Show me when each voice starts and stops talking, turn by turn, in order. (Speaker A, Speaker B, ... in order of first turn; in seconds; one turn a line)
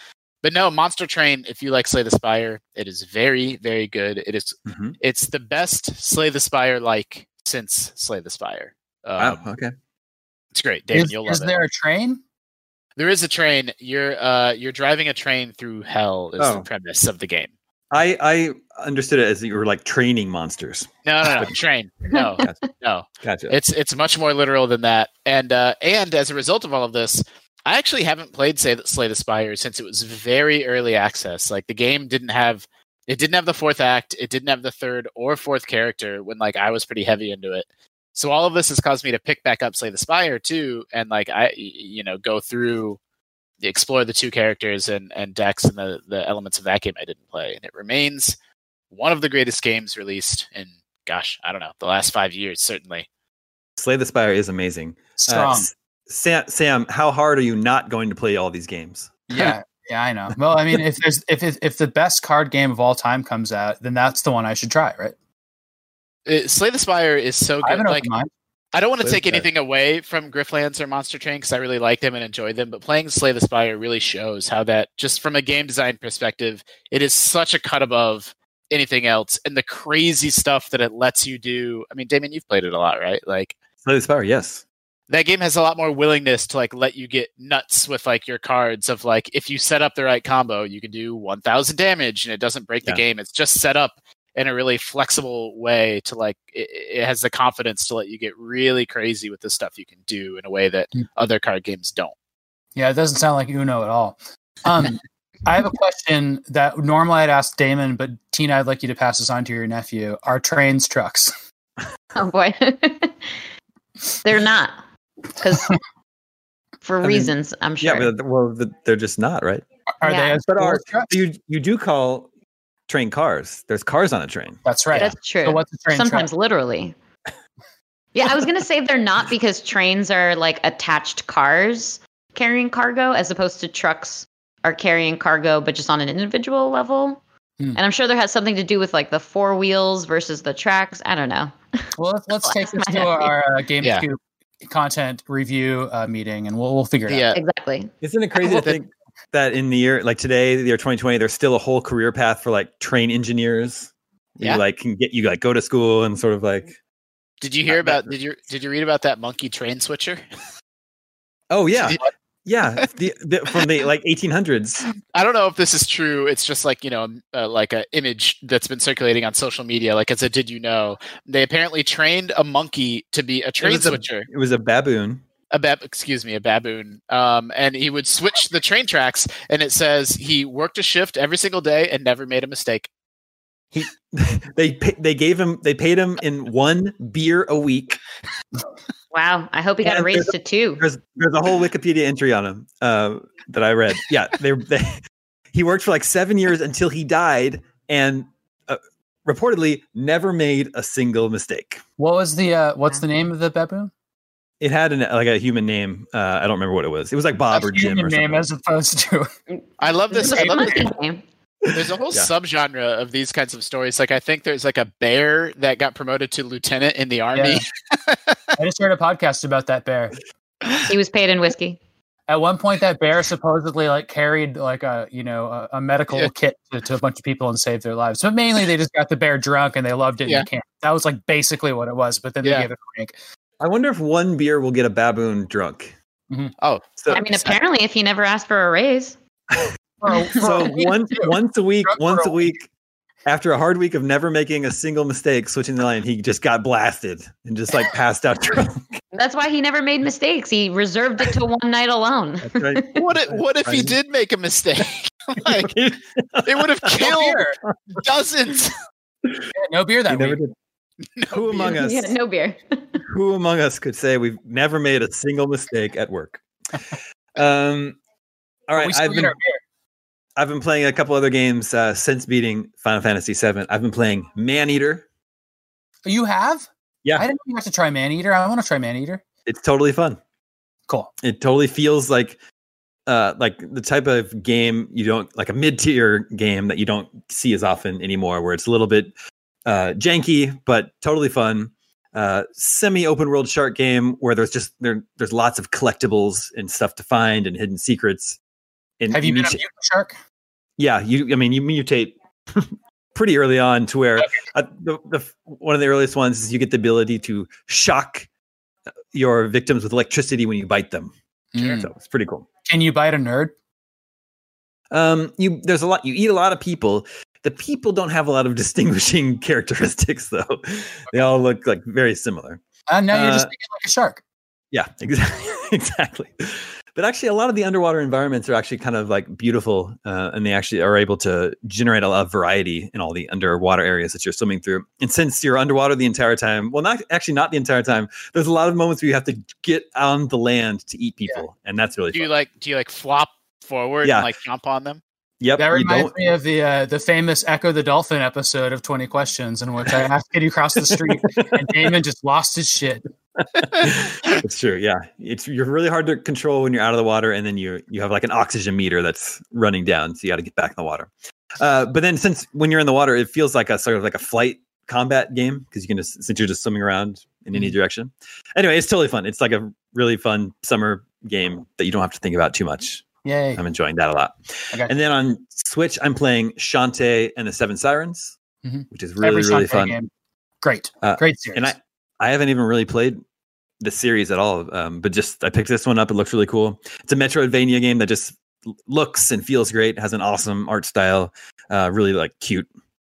Speaker A: 0.4-9.4
Speaker B: 4.7-4.9
Speaker B: 9.2-9.7
Speaker A: 10.5-11.6
Speaker C: 10.9-12.2
Speaker A: 13.0-17.5
Speaker B: 16.4-16.6
Speaker B: 17.9-21.5
Speaker A: 21.0-43.0
Speaker D: 22.1-22.4
Speaker B: 23.2-23.6
Speaker A: 43.6-48.4
Speaker A: 48.9-53.1
Speaker B: 53.8-59.5
Speaker C: 55.2-55.7
Speaker C: 59.3-65.1
Speaker A: 66.2-68.1
Speaker C: 67.6-68.3
Speaker A: 68.7-83.5
Speaker B: 69.0-69.5
Speaker B: 83.8-84.6
Speaker A: 85.1-102.1
Speaker C: 102.8-111.3
Speaker D: 112.1-113.3
Speaker D: 114.2-114.8
Speaker D: 115.4-115.7
Speaker D: 116.8-118.1
Speaker B: 117.0-119.6
Speaker C: 120.0-121.2
Speaker D: 120.0-120.4
Speaker B: 120.5-122.3
Speaker B: 122.9-124.6
Speaker C: 124.6-126.3
Speaker D: 124.9-126.9
Speaker D: 128.1-137.2
Speaker D: 137.8-141.8
Speaker C: 142.0-147.2
Speaker D: 142.4-143.3
Speaker A: 147.1-147.4
Speaker D: 147.3-147.9
Speaker B: 148.0-156.8
Speaker A: 157.4-160.2
Speaker B: 157.7-158.1
Speaker B: 161.5-164.8
Speaker A: 165.0-174.3
Speaker B: 173.6-175.2
Speaker A: 175.5-182.9
Speaker B: 183.7-188.0
Speaker D: 189.1-190.8
Speaker B: 189.8-195.0
Speaker B: 195.5-201.8
Speaker C: 202.0-203.9
Speaker B: 204.6-208.5
Speaker C: 207.5-209.3
Speaker A: 209.8-210.9
Speaker D: 210.1-211.2
Speaker C: 210.1-210.9
Speaker B: 211.6-212.3
Speaker A: 211.7-218.3
Speaker C: 217.3-217.6
Speaker C: 218.6-220.2
Speaker D: 220.8-221.8
Speaker C: 222.3-233.1
Speaker A: 232.4-232.7
Speaker B: 233.6-235.9
Speaker A: 236.6-237.6
Speaker B: 237.0-237.2
Speaker D: 237.1-239.2
Speaker C: 240.0-242.5
Speaker B: 240.3-242.7
Speaker B: 243.2-249.0
Speaker D: 249.1-253.0
Speaker B: 252.4-253.9
Speaker A: 253.0-255.8
Speaker B: 255.4-256.9
Speaker A: 256.4-257.4
Speaker C: 257.0-257.6
Speaker A: 257.9-258.8
Speaker C: 259.5-260.4
Speaker B: 260.1-260.5
Speaker A: 261.1-261.8
Speaker B: 261.3-262.1
Speaker D: 261.6-263.0
Speaker B: 263.0-266.4
Speaker B: 267.4-268.0
Speaker B: 268.7-269.3
Speaker C: 268.8-269.6
Speaker B: 270.4-275.0
Speaker C: 276.0-279.2
Speaker B: 279.4-280.2
Speaker B: 281.2-282.4
Speaker B: 283.1-289.1
Speaker B: 289.6-298.4
Speaker B: 299.0-299.6
Speaker C: 299.1-300.1
Speaker B: 300.8-308.3
Speaker B: 309.1-311.1
Speaker C: 311.5-311.9
Speaker B: 311.7-312.5
Speaker C: 312.7-313.5
Speaker B: 314.9-323.5
Speaker C: 322.9-324.2
Speaker B: 324.7-342.3
Speaker A: 342.1-345.0
Speaker B: 345.4-346.1
Speaker C: 345.6-353.0
Speaker B: 350.9-351.9
Speaker B: 353.6-373.0
Speaker C: 373.2-373.6
Speaker B: 373.6-378.3
Speaker C: 378.6-380.1
Speaker B: 378.9-379.9
Speaker C: 380.6-381.7
Speaker B: 381.0-383.2
Speaker B: 383.8-392.7